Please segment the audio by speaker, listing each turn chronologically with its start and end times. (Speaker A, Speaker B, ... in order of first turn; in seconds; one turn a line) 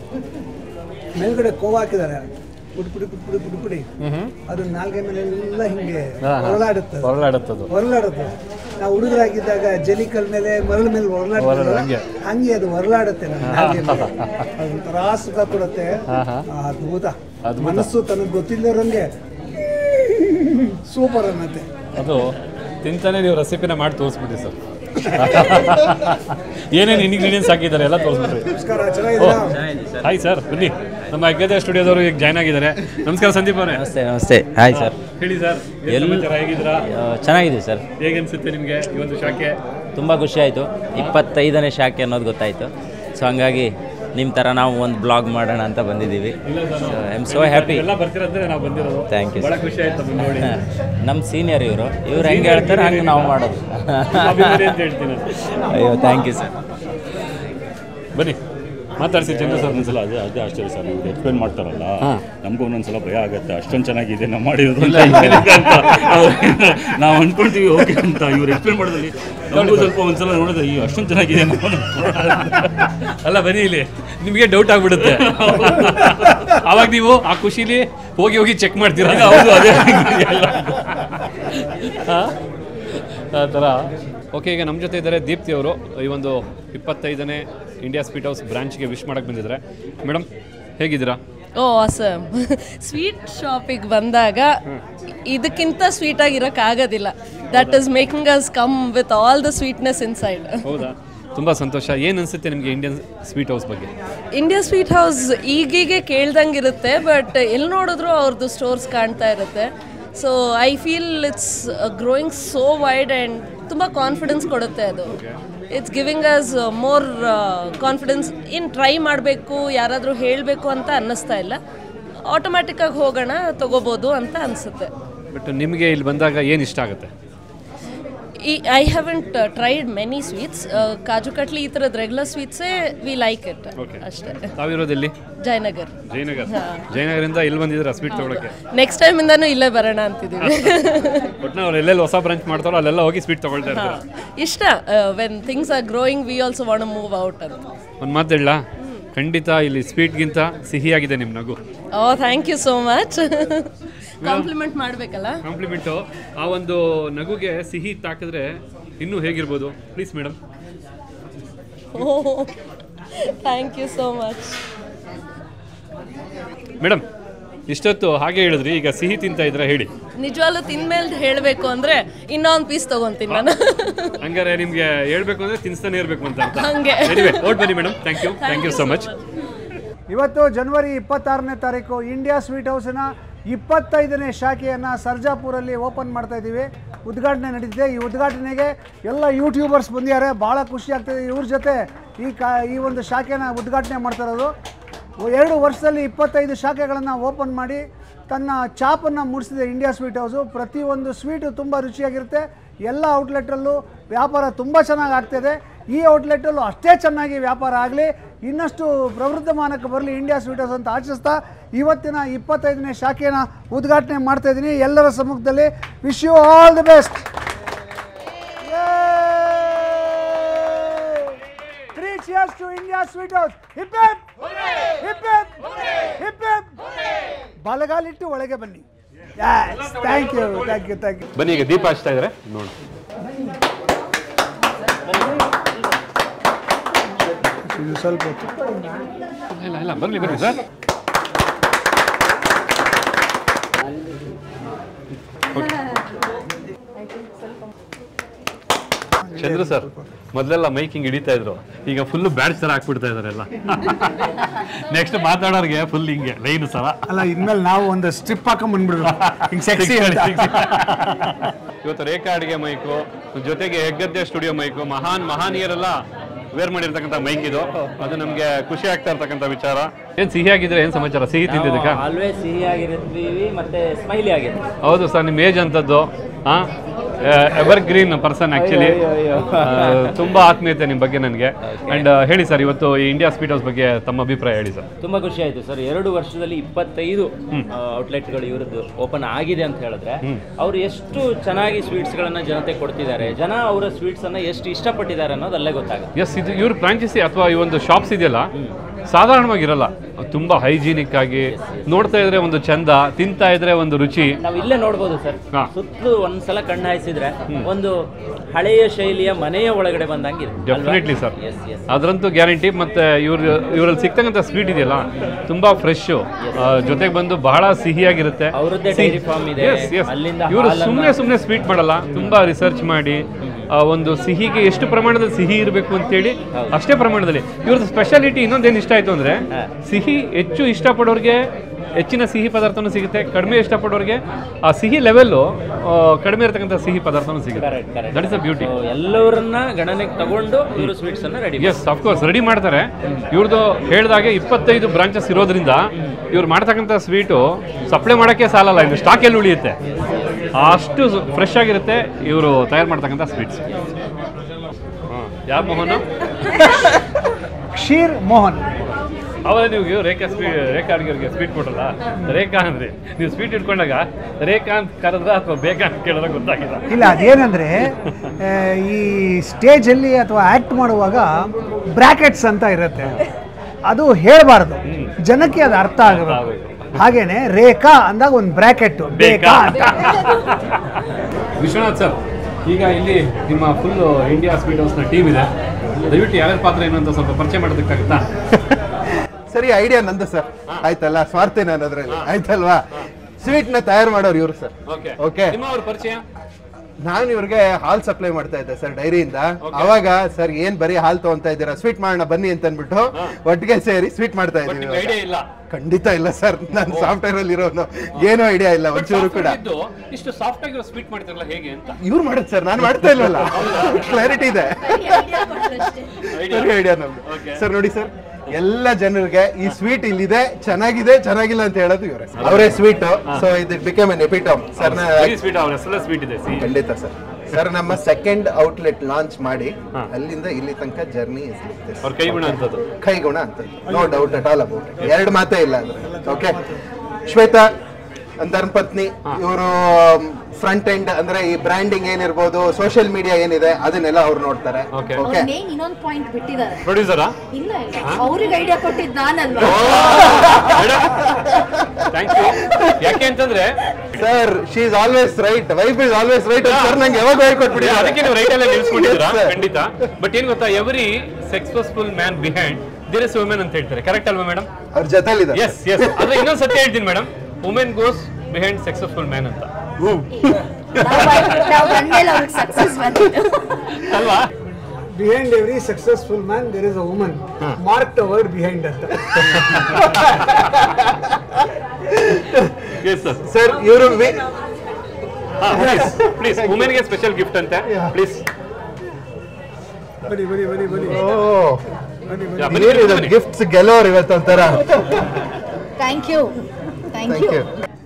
Speaker A: 1.1-3.9
Speaker B: 4.0-4.3
Speaker A: 4.5-7.1
Speaker B: 6.2-7.7
Speaker A: 7.7-21.7
Speaker B: 11.4-12.1
Speaker B: 13.4-14.5
Speaker B: 16.1-16.5
Speaker B: 17.4-17.9
Speaker B: 22.0-22.3
Speaker B: 22.8-28.5
Speaker A: 25.0-25.6
Speaker A: 28.4-29.6
Speaker C: 29.5-30.1
Speaker B: 30.0-33.8
Speaker C: 33.7-34.9
Speaker B: 34.7-36.8
Speaker C: 35.9-36.3
Speaker C: 36.9-37.8
Speaker B: 38.0-39.6
Speaker C: 40.0-46.4
Speaker B: 46.5-50.6
Speaker C: 46.9-47.9
Speaker C: 49.1-49.5
Speaker C: 51.0-54.7
Speaker B: 52.1-53.4
Speaker B: 54.1-55.3
Speaker C: 55.5-56.5
Speaker B: 59.0-59.9
Speaker D: 59.2-72.9
Speaker B: 64.8-66.8
Speaker B: 69.5-69.9
Speaker B: 72.2-72.6
Speaker B: 73.2-82.3
Speaker D: 75.1-76.5
Speaker D: 79.0-81.0
Speaker B: 83.0-90.3
Speaker B: 90.8-91.2
Speaker E: 91.6-94.6
Speaker E: 95.3-100.8
Speaker B: 97.5-97.8
Speaker B: 100.6-103.9
Speaker E: 104.3-115.2
Speaker B: 115.1-115.4
Speaker E: 115.7-121.6
Speaker E: 122.2-124.9
Speaker B: 125.3-127.1
Speaker E: 128.4-134.5
Speaker B: 133.8-135.2
Speaker E: 135.4-135.9
Speaker B: 136.1-138.5
Speaker E: 136.5-136.9
Speaker E: 138.1-141.3
Speaker B: 140.4-140.7
Speaker B: 141.4-144.0
Speaker E: 143.7-147.6
Speaker B: 148.0-151.6
Speaker E: 151.9-153.7
Speaker B: 154.2-154.5
Speaker E: 154.2-155.4
Speaker B: 155.4-160.4
Speaker E: 161.9-162.5
Speaker E: 163.3-164.6
Speaker B: 167.7-169.9
Speaker E: 170.2-174.2
Speaker B: 174.2-179.1
Speaker E: 176.5-179.2
Speaker A: 180.1-194.5
Speaker A: 195.2-217.3
Speaker A: 218.6-221.4
Speaker A: 221.9-226.9
Speaker A: 227.6-228.8
Speaker A: 229.4-231.3
Speaker B: 229.6-230.8
Speaker B: 231.3-232.8
Speaker A: 237.6-238.6
Speaker B: 239.5-240.6
Speaker B: 245.5-245.8
Speaker A: 249.2-250.1
Speaker B: 249.4-257.0
Speaker A: 257.1-261.3
Speaker B: 259.1-266.0
Speaker B: 266.6-272.0
Speaker C: 267.8-268.1
Speaker C: 271.5-274.6
Speaker B: 274.8-276.7
Speaker B: 277.2-279.0
Speaker C: 278.5-280.1
Speaker B: 279.6-284.9
Speaker C: 281.6-282.1
Speaker C: 285.0-296.1
Speaker B: 296.1-298.5
Speaker B: 299.1-304.4
Speaker C: 301.5-301.8
Speaker C: 304.4-307.9
Speaker C: 308.6-311.9
Speaker B: 310.7-311.4
Speaker B: 311.9-338.7
Speaker C: 316.4-316.8
Speaker C: 318.5-321.2
Speaker C: 323.4-323.7
Speaker C: 337.6-341.8
Speaker B: 341.6-349.8
Speaker B: 350.6-353.7
Speaker B: 355.1-356.1
Speaker A: 357.7-358.7
Speaker B: 358.8-366.9
Speaker A: 366.9-373.3
Speaker A: 373.9-380.3
Speaker B: 374.9-375.1
Speaker B: 376.1-377.0
Speaker B: 379.1-381.0
Speaker B: 381.6-388.3
Speaker F: 389.5-392.9
Speaker F: 393.4-395.6
Speaker B: 394.9-396.2
Speaker F: 397.0-405.2
Speaker B: 399.6-400.0
Speaker B: 404.7-405.5
Speaker F: 405.7-409.6
Speaker B: 406.9-407.1
Speaker B: 408.9-411.9
Speaker F: 412.0-425.4
Speaker B: 413.0-414.2
Speaker G: 414.9-415.9
Speaker B: 416.3-417.6
Speaker B: 422.4-423.4
Speaker B: 424.8-426.7
Speaker F: 426.6-436.6
Speaker B: 432.0-432.8
Speaker A: 433.9-434.4
Speaker A: 436.1-436.8
Speaker F: 437.3-437.7
Speaker F: 438.4-445.5
Speaker B: 444.9-445.2
Speaker G: 445.2-446.9
Speaker B: 446.8-447.4
Speaker G: 447.5-450.2
Speaker B: 449.6-451.3
Speaker F: 450.0-453.2
Speaker B: 452.1-454.3
Speaker F: 454.2-459.7
Speaker B: 456.6-457.1
Speaker B: 457.7-464.7
Speaker F: 464.9-466.3
Speaker B: 465.5-469.7
Speaker F: 470.0-472.1
Speaker G: 471.0-473.8
Speaker B: 474.0-474.5
Speaker A: 475.1-479.8
Speaker B: 479.4-480.7
Speaker F: 479.9-480.8
Speaker F: 482.1-482.8
Speaker B: 483.0-483.4
Speaker F: 483.4-484.5
Speaker B: 485.6-488.4
Speaker F: 485.6-487.0
Speaker F: 487.9-488.1
Speaker A: 490.2-491.4
Speaker F: 491.0-491.9
Speaker A: 492.3-493.0
Speaker B: 492.6-493.4
Speaker F: 492.7-495.4
Speaker G: 496.0-496.6
Speaker G: 497.1-497.6
Speaker F: 497.2-497.7